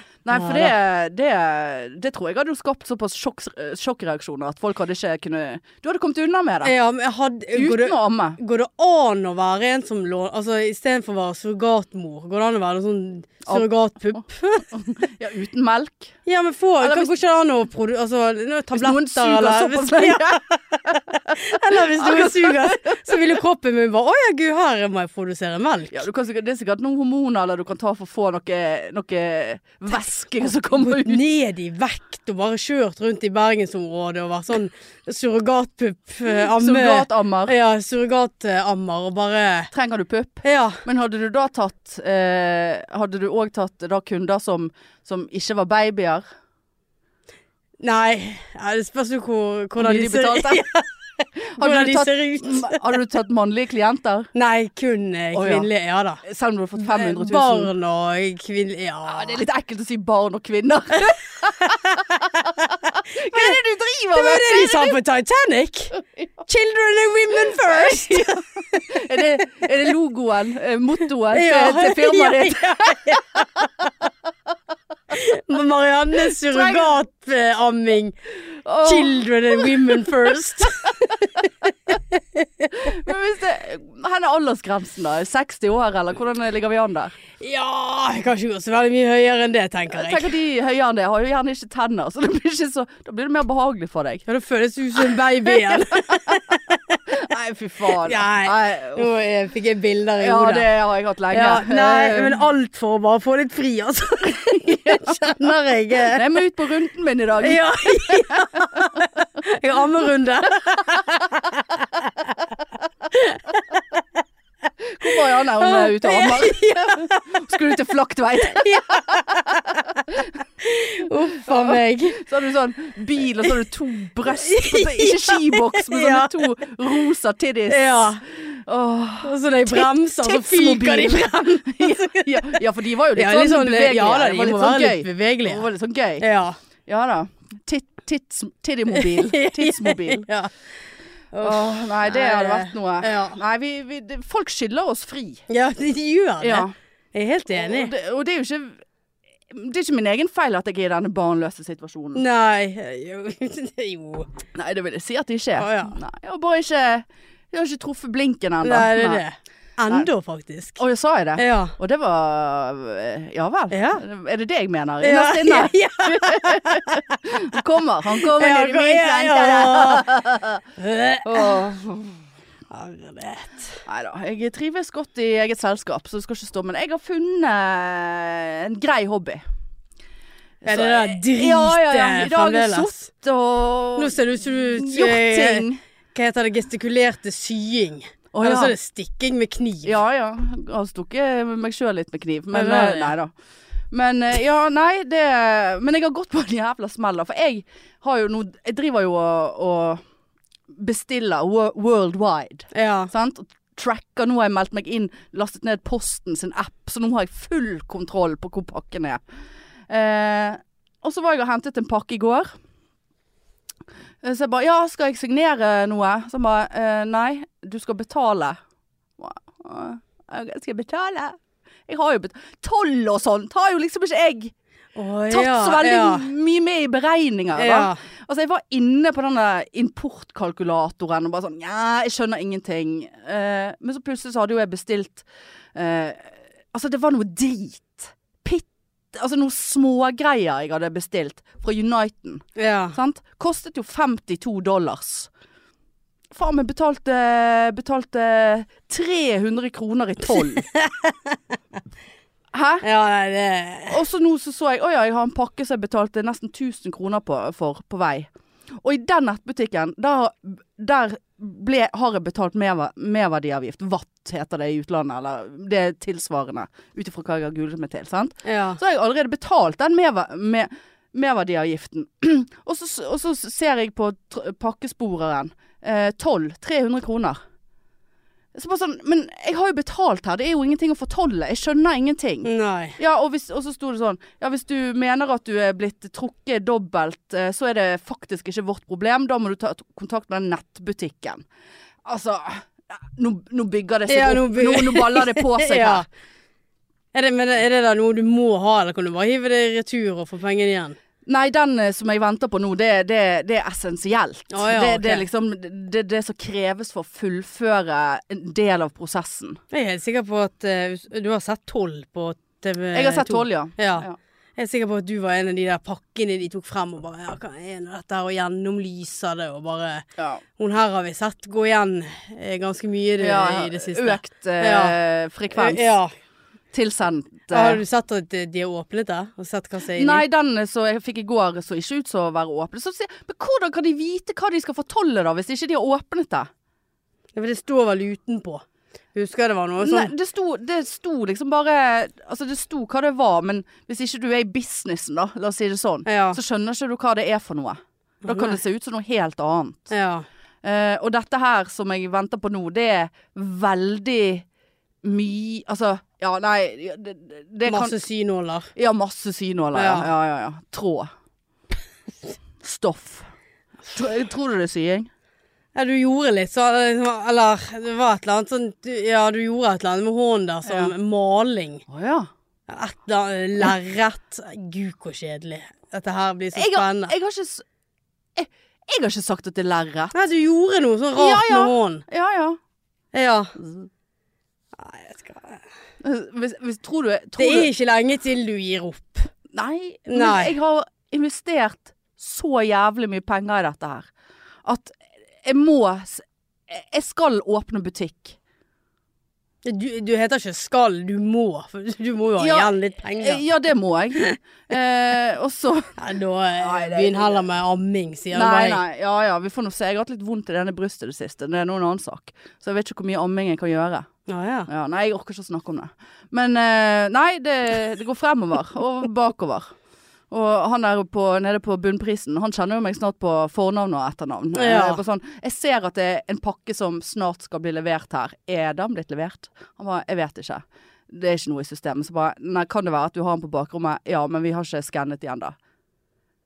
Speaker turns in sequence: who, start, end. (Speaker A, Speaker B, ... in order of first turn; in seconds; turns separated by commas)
Speaker A: 0.2-6.7, Speaker B: 0.3-0.7, Speaker B: 6.6-14.7, Speaker A: 7.5-8.4, Speaker A: 14.7-16.2, Speaker B: 16.2-26.1, Speaker A: 16.8-17.1, Speaker A: 18.7-23.4, Speaker A: 25.9-31.2, Speaker B: 30.7-39.7, Speaker A: 36.4-37.5, Speaker A: 39.7-46.2, Speaker B: 40.4-40.8, Speaker B: 47.8-52.9, Speaker A: 49.8-50.7, Speaker A: 51.4-54.3, Speaker B: 54.3-56.2, Speaker A: 55.3-55.7, Speaker A: 56.2-57.7, Speaker B: 56.8-59.4, Speaker A: 59.1-65.0, Speaker B: 61.6-63.6, Speaker B: 64.1-69.0, Speaker A: 67.4-73.4, Speaker B: 71.3-73.9, Speaker B: 75.1-78.2, Speaker A: 76.3-77.0, Speaker A: 78.7-81.5, Speaker B: 78.8-82.9, Speaker A: 82.7-87.2, Speaker B: 87.4-90.3, Speaker A: 89.9-94.2, Speaker B: 94.3-97.0, Speaker A: 95.5-96.4, Speaker A: 97.1-99.1, Speaker B: 97.9-100.7, Speaker A: 100.2-102.4, Speaker B: 101.3-106.2, Speaker A: 104.5-105.5, Speaker A: 106.0-108.7, Speaker B: 107.4-112.3, Speaker B: 113.1-114.0, Speaker A: 114.9-120.3, Speaker B: 115.0-117.6, Speaker B: 118.4-120.0, Speaker B: 120.6-122.3, Speaker A: 121.4-136.3, Speaker B: 124.3-126.3, Speaker B: 127.7-128.2, Speaker B: 129.2-132.6, Speaker B: 133.2-135.7, Speaker B: 136.2-136.6, Speaker A: 136.9-140.3, Speaker B: 138.9-140.5, Speaker B: 141.3-143.4, Speaker A: 141.4-145.4, Speaker B: 145.5-147.9, Speaker A: 146.4-146.7, Speaker A: 147.5-148.8, Speaker A: 149.5-152.2, Speaker B: 152.1-154.3, Speaker A: 154.6-159.2, Speaker B: 155.6-156.0, Speaker B: 158.6-160.8, Speaker A: 160.8-170.6, Speaker B: 161.4-161.8, Speaker B: 163.7-164.0, Speaker B: 165.0-170.1, Speaker B: 170.8-171.7, Speaker A: 171.2-172.2, Speaker B: 172.7-173.8, Speaker A: 173.9-179.4, Speaker A: 180.6-185.8, Speaker B: 180.7-183.0, Speaker B: 184.0-190.0, Speaker A: 188.3-188.8, Speaker A: 189.8-193.3, Speaker B: 192.5-193.2, Speaker A: 193.9-200.0, Speaker A: 200.7-209.2, Speaker B: 202.7-203.1, Speaker A: 209.9-212.5, Speaker A: 214.2-218.6, Speaker A: 219.2-224.5, Speaker B: 224.9-226.3, Speaker A: 225.3-245.3, Speaker B: 227.6-228.0, Speaker B: 242.6-243.0, Speaker A: 246.3-250.7, Speaker B: 250.3-251.4, Speaker A: 252.5-252.8, Speaker B: 252.8-254.0, Speaker A: 253.9-277.4, Speaker B: 268.4-268.8, Speaker A: 278.6-291.4, Speaker B: 282.4-283.0, Speaker A: 292.1-296.1, Speaker B: 294.1-296.1, Speaker B: 297.1-301.0, Speaker A: 301.3-309.6, Speaker B: 304.5-305.2, Speaker B: 309.7-325.0, Speaker A: 312.9-314.2, Speaker A: 323.2-325.9, Speaker B: 325.6-326.1, Speaker A: 326.7-327.8, Speaker B: 327.5-330.2, Speaker A: 329.9-336.5, Speaker B: 337.4-340.1, Speaker A: 339.8-349.9, Speaker B: 346.1-346.4, Speaker B: 348.2-348.6, Speaker B: 349.9-350.3, Speaker A: 350.6-354.5, Speaker A: 355.0-358.0, Speaker B: 357.7-358.7, Speaker A: 358.8-361.1, Speaker B: 359.8-360.1, Speaker A: 362.6-363.3, Speaker A: 363.9-365.1, Speaker B: 365.8-371.8, Speaker A: 370.7-370.9, Speaker A: 371.9-372.3, Speaker B: 372.7-377.1, Speaker A: 376.6-377.6, Speaker A: 378.4-380.1, Speaker B: 380.1-382.0, Speaker A: 381.1-382.6, Speaker B: 383.1-383.6, Speaker B: 384.8-385.6, Speaker A: 386.0-387.7, Speaker B: 387.4-389.3, Speaker A: 389.5-394.1, Speaker B: 390.1-390.6, Speaker A: 394.6-398.4, Speaker B: 399.6-403.4, Speaker A: 402.4-405.9, Speaker B: 406.0-408.8, Speaker A: 406.6-407.4, Speaker A: 408.3-414.1, Speaker B: 414.3-414.7, Speaker A: 414.7-419.7, Speaker A: 420.3-435.6, Speaker B: 424.5-425.0